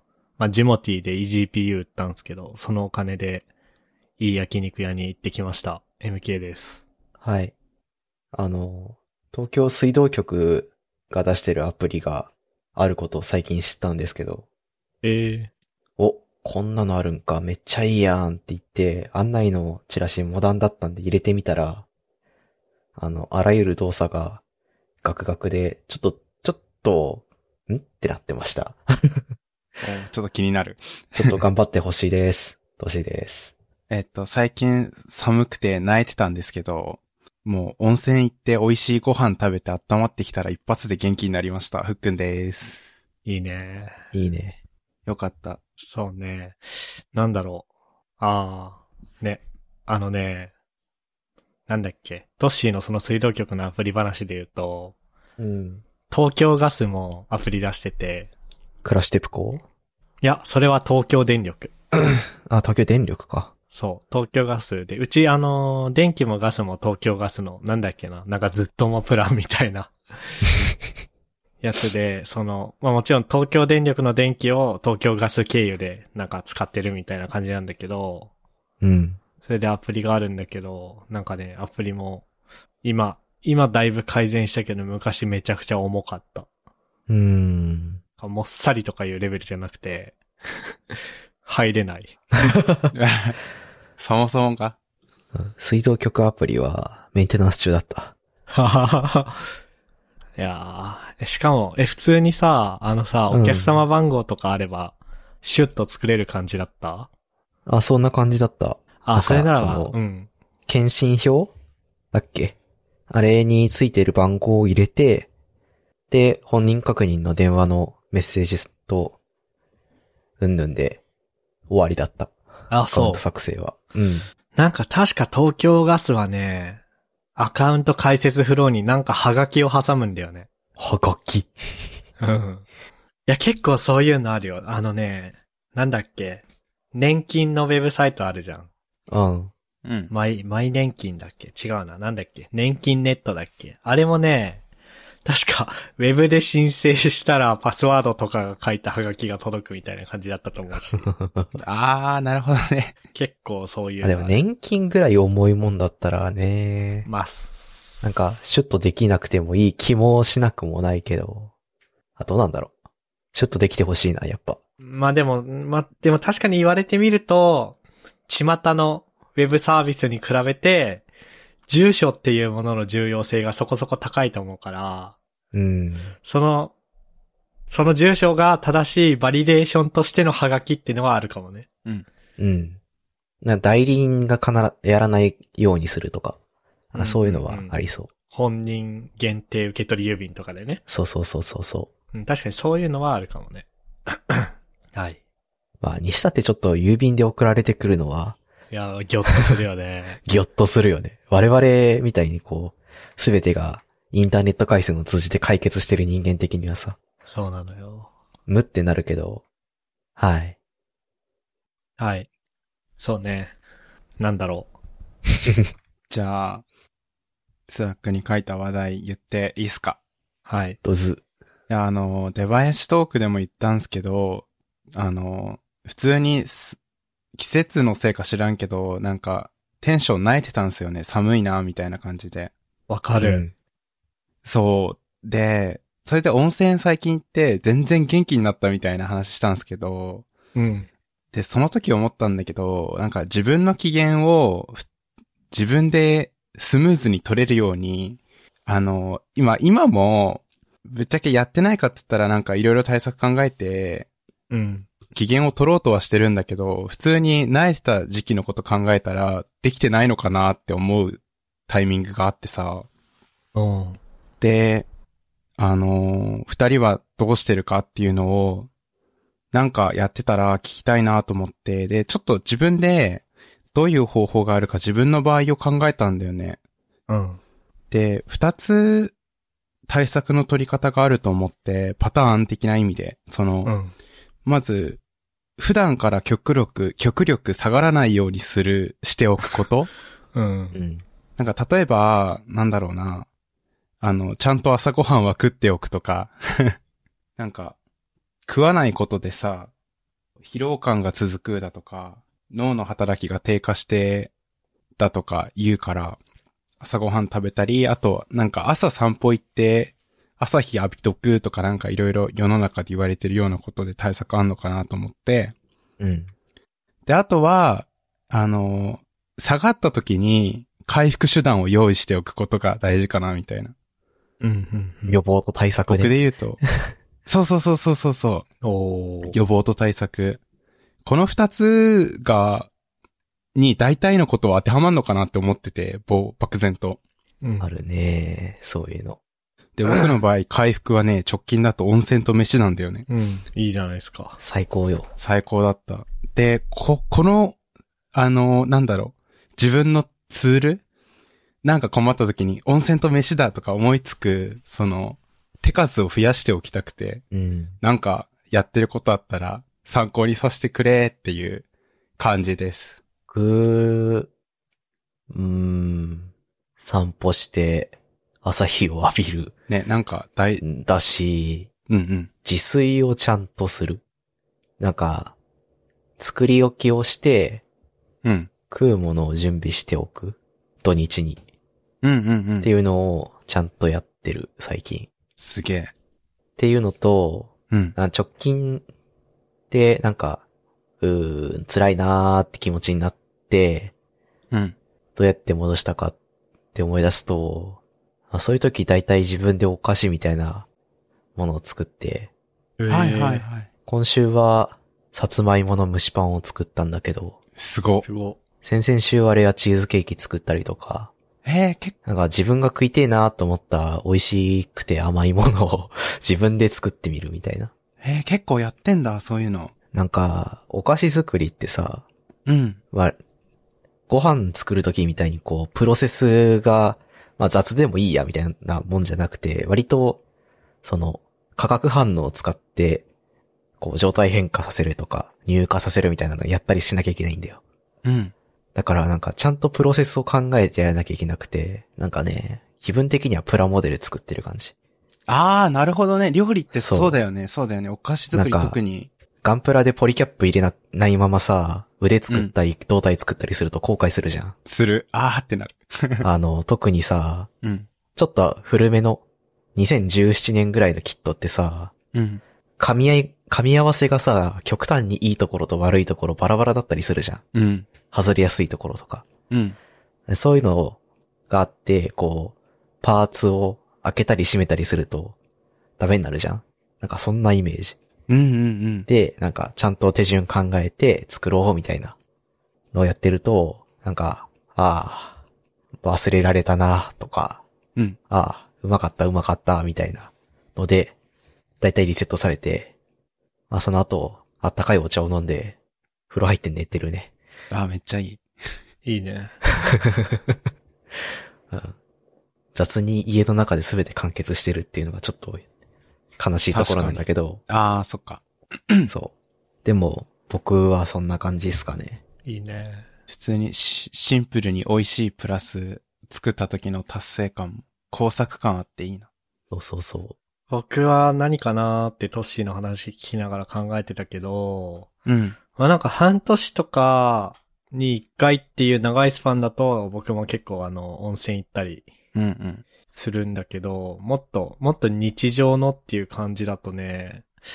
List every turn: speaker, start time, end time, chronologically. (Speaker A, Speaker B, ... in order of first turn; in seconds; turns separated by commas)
Speaker A: 0.4-3.5, Speaker A: 4.2-6.8, Speaker B: 7.2-7.5, Speaker B: 8.3-14.5, Speaker A: 15.0-15.5, Speaker B: 16.0-21.9, Speaker B: 23.0-24.4, Speaker B: 25.0-29.2, Speaker C: 29.8-31.4, Speaker B: 31.1-33.5, Speaker C: 33.9-42.9, Speaker A: 43.3-44.0, Speaker B: 44.1-44.6, Speaker C: 45.1-45.6, Speaker A: 45.9-46.6, Speaker A: 47.1-47.7, Speaker A: 48.2-50.5, Speaker A: 51.7-55.0, Speaker B: 55.4-55.8, Speaker A: 56.1-58.3, Speaker B: 58.8-59.6, Speaker A: 60.2-61.7, Speaker B: 62.5-63.5, Speaker A: 63.7-70.5, Speaker A: 71.6-78.3, Speaker B: 78.8-79.2, Speaker A: 79.4-82.3, Speaker A: 82.8-86.5, Speaker B: 87.1-88.0, Speaker A: 88.2-92.2, Speaker B: 92.5-92.9, Speaker C: 92.9-93.4, Speaker C: 94.0-94.8, Speaker B: 95.3-98.2, Speaker A: 98.5-99.4, Speaker A: 100.4-107.1, Speaker B: 103.3-103.8, Speaker B: 107.7-110.0, Speaker A: 109.0-110.3, Speaker B: 110.7-111.5, Speaker B: 112.1-112.5, Speaker B: 113.1-115.3, Speaker B: 116.1-119.2, Speaker B: 120.4-121.0, Speaker B: 121.7-122.3, Speaker A: 122.7-123.2, Speaker B: 122.9-124.3, Speaker A: 124.5-126.8, Speaker A: 127.4-130.5, Speaker B: 130.8-131.9, Speaker A: 132.2-132.7, Speaker A: 133.3-136.4, Speaker A: 136.9-138.7, Speaker B: 139.1-139.5, Speaker C: 139.8-140.1, Speaker A: 140.1-144.6, Speaker A: 145.2-151.1, Speaker B: 150.9-151.5, Speaker C: 151.6-152.9, Speaker A: 153.1-154.4, Speaker B: 154.0-157.1, Speaker A: 157.1-158.4, Speaker B: 158.0-161.5, Speaker B: 162.2-162.7, Speaker B: 163.3-164.6, Speaker A: 164.8-171.1, Speaker A: 171.7-175.2, Speaker B: 175.5-176.1, Speaker A: 176.2-176.7, Speaker A: 177.7-181.7, Speaker B: 182.4-182.8, Speaker B: 183.4-186.4, Speaker B: 186.9-188.1, Speaker A: 187.0-187.8, Speaker A: 188.3-190.8, Speaker B: 190.9-191.9, Speaker A: 192.1-195.2, Speaker B: 195.8-198.4, Speaker A: 198.7-200.2, Speaker B: 200.2-207.0, Speaker A: 207.3-208.1, Speaker B: 208.5-209.4, Speaker B: 210.2-210.6, Speaker A: 212.0-212.3, Speaker A: 213.0-213.6, Speaker A: 214.2-214.7, Speaker C: 216.1-216.6, Speaker C: 217.7-220.0, Speaker A: 220.5-220.8, Speaker B: 220.8-221.2, Speaker C: 221.7-226.8, Speaker C: 227.3-232.5, Speaker A: 232.9-233.5, Speaker B: 233.2-233.5, Speaker C: 234.4-240.3, Speaker A: 240.6-240.9, Speaker C: 241.3-244.8, Speaker C: 245.5-254.1, Speaker A: 254.5-254.9, Speaker C: 255.1-262.9, Speaker A: 263.6-264.0, Speaker C: 264.4-264.9, Speaker C: 265.6-268.7, Speaker C: 269.5-276.6, Speaker A: 277.1-277.4, Speaker C: 277.9-279.1, Speaker C: 279.9-283.7, Speaker A: 283.6-283.9, Speaker C: 284.5-285.0, Speaker C: 285.6-289.9, Speaker A: 290.4-290.8, Speaker B: 290.7-291.0, Speaker C: 291.4-293.3, Speaker C: 294.0-296.8, Speaker C: 297.4-297.8, Speaker C: 298.5-299.7, Speaker C: 300.4-304.3, Speaker C: 305.0-306.2, Speaker C: 306.8-315.5, Speaker B: 316.0-316.3, Speaker C: 317.1-323.7, Speaker A: 324.4-325.2, Speaker B: 325.1-326.1, Speaker C: 325.9-326.6, Speaker C: 327.3-328.5, Speaker A: 328.6-329.4, Speaker C: 329.3-330.4, Speaker C: 331.1-332.7, Speaker C: 333.6-337.0, Speaker A: 337.4-337.7, Speaker B: 337.6-339.2, Speaker C: 339.8-343.1, Speaker A: 343.1-344.4, Speaker B: 344.4-345.1, Speaker C: 345.2-347.6, Speaker C: 348.1-350.8, Speaker C: 351.6-357.2, Speaker B: 357.3-357.8, Speaker C: 357.8-361.6, Speaker C: 362.2-363.0, Speaker B: 363.3-364.3, Speaker B: 365.3-369.5, Speaker C: 369.7-370.6, Speaker B: 370.6-371.7, Speaker C: 371.9-372.3, Speaker B: 372.4-374.0, Speaker B: 374.8-375.4, Speaker B: 376.2-377.6, Speaker C: 378.2-378.5, Speaker B: 378.7-381.4, Speaker C: 382.0-382.7, Speaker B: 382.6-385.1, Speaker C: 385.4-385.9, Speaker B: 386.6-388.8, Speaker B: 389.7-390.4, Speaker B: 391.0-393.9, Speaker B: 395.2-396.2, Speaker B: 396.7-397.8, Speaker B: 398.3-400.7, Speaker B: 401.4-402.3, Speaker A: 402.8-403.4, Speaker C: 402.9-403.7, Speaker B: 403.9-407.4, Speaker C: 407.6-408.1, Speaker A: 408.0-408.4, Speaker B: 408.6-411.1, Speaker C: 411.4-411.9, Speaker B: 412.1-417.7, Speaker C: 418.0-419.7, Speaker B: 419.9-422.1, Speaker C: 422.5-422.8, Speaker B: 424.1-430.2, Speaker B: 430.8-433.1, Speaker B: 433.8-437.6, Speaker C: 438.1-438.3, Speaker B: 438.8-444.7, Speaker C: 445.3-449.1, Speaker B: 446.8-447.2, Speaker B: 448.3-448.8, Speaker B: 449.4-454.6, Speaker C: 454.7-456.3, Speaker B: 456.2-457.5, Speaker B: 458.2-459.2, Speaker B: 459.8-461.9, Speaker C: 462.1-462.4, Speaker B: 462.8-467.4, Speaker C: 467.5-467.9, Speaker B: 468.1-469.3, Speaker C: 469.5-469.8, Speaker B: 470.3-471.0, Speaker B: 471.5-475.4, Speaker B: 476.0-478.0, Speaker C: 478.3-479.1, Speaker B: 479.1-482.2, Speaker B: 482.9-485.4, Speaker B: 486.0-487.6, Speaker B: 488.3-491.1, Speaker B: 491.8-492.9, Speaker B: 493.7-495.8, Speaker B: 496.3-497.3, Speaker C: 497.7-498.4, Speaker A: 499.1-499.6, Speaker B: 499.9-500.5, Speaker B: 501.7-502.0, Speaker B: 502.7-505.6, Speaker B: 506.4-507.6, Speaker C: 506.7-509.1, Speaker B: 509.1-509.3, Speaker B: 509.9-512.2, Speaker A: 512.5-513.1, Speaker C: 513.3-519.3, Speaker B: 519.7-520.4, Speaker A: 520.7-525.1, Speaker C: 525.3-525.6, Speaker A: 525.8-532.1, Speaker C: 532.4-532.8, Speaker A: 533.1-537.5